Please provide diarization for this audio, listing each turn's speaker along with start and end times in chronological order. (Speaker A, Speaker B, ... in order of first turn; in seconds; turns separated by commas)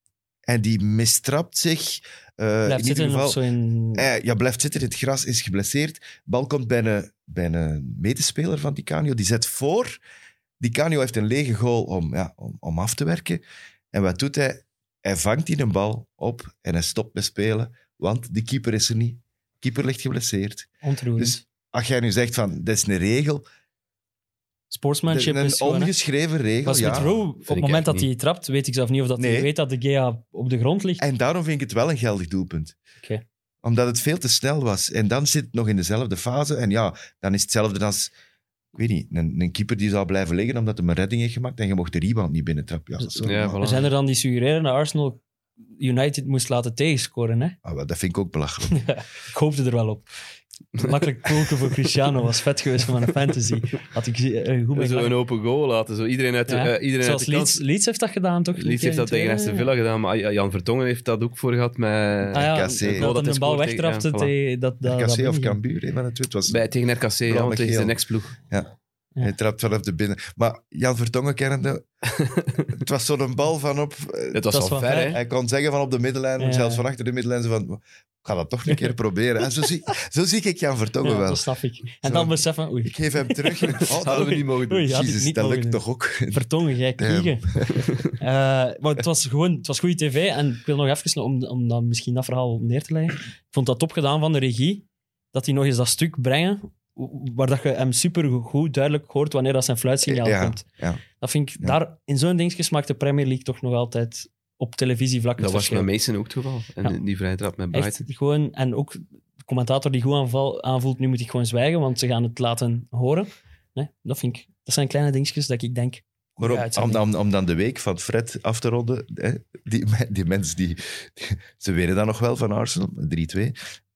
Speaker A: 0.5-3.4, Speaker B: 2.7-4.1, Speaker A: 4.0-10.0, Speaker A: 10.6-13.4, Speaker A: 13.9-23.4, Speaker B: 20.8-21.4, Speaker B: 24.7-25.9, Speaker A: 25.1-27.1, Speaker B: 26.6-31.1, Speaker C: 26.9-28.1, Speaker A: 29.2-29.5, Speaker A: 31.0-32.8, Speaker A: 33.6-38.1, Speaker A: 38.8-43.6, Speaker C: 43.2-43.9, Speaker B: 43.6-45.2, Speaker B: 45.8-47.6, Speaker A: 47.6-48.8, Speaker B: 48.7-50.1, Speaker B: 50.8-55.1, Speaker C: 54.7-57.6, Speaker B: 56.5-59.7, Speaker C: 58.6-64.3, Speaker B: 62.3-65.6, Speaker A: 62.4-63.1, Speaker A: 64.8-66.6, Speaker C: 66.5-68.4, Speaker A: 67.3-68.0, Speaker A: 68.5-71.8, Speaker C: 72.1-72.7, Speaker A: 72.8-74.5, Speaker C: 74.3-75.2, Speaker B: 74.5-75.2, Speaker A: 75.1-81.4, Speaker B: 76.4-76.8, Speaker B: 81.0-87.5, Speaker A: 82.0-86.4, Speaker C: 83.8-85.0, Speaker A: 87.0-87.9, Speaker B: 88.2-100.6, Speaker A: 100.0-101.0, Speaker B: 101.2-105.9, Speaker C: 105.4-108.0, Speaker B: 107.7-117.0, Speaker A: 116.4-123.6